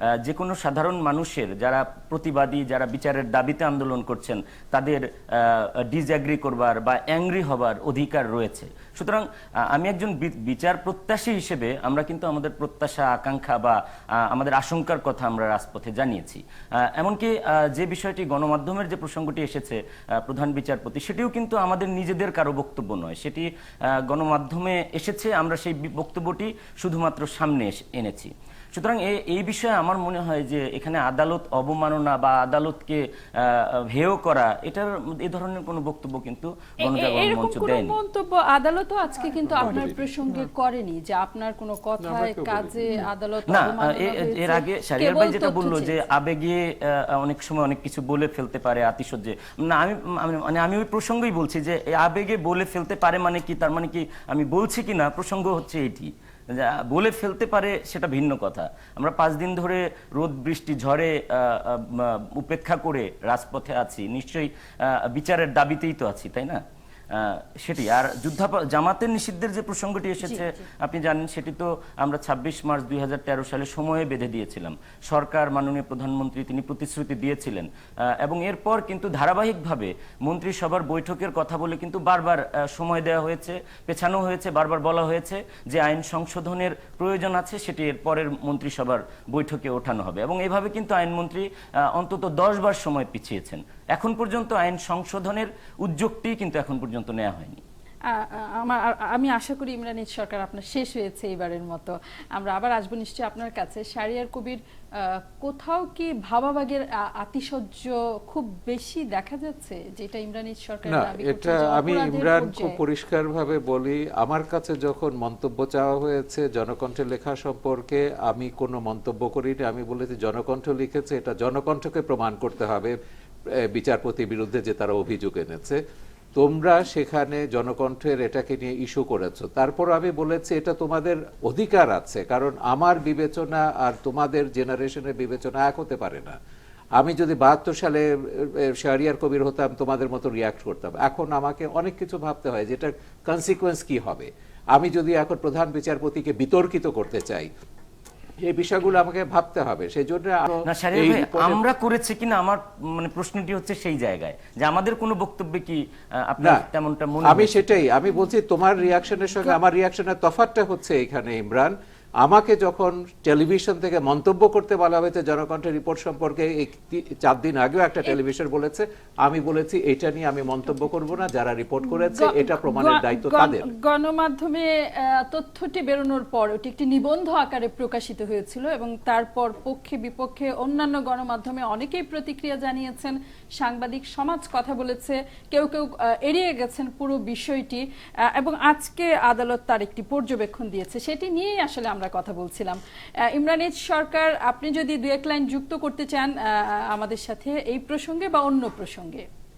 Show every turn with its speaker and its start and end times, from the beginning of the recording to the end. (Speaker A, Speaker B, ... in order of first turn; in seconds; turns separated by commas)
Speaker A: 0.2-38.0, Speaker B: 36.8-46.0, Speaker C: 39.6-39.9, Speaker C: 42.0-43.0, Speaker A: 43.5-66.6, Speaker A: 67.1-77.7, Speaker B: 70.2-70.5, Speaker A: 78.2-97.6, Speaker B: 98.1-112.8, Speaker C: 110.9-123.0, Speaker C: 123.5-125.8, Speaker C: 126.3-136.4, Speaker C: 137.0-147.5, Speaker C: 148.4-151.6, Speaker A: 150.6-157.8, Speaker C: 157.2-173.7, Speaker B: 172.0-199.3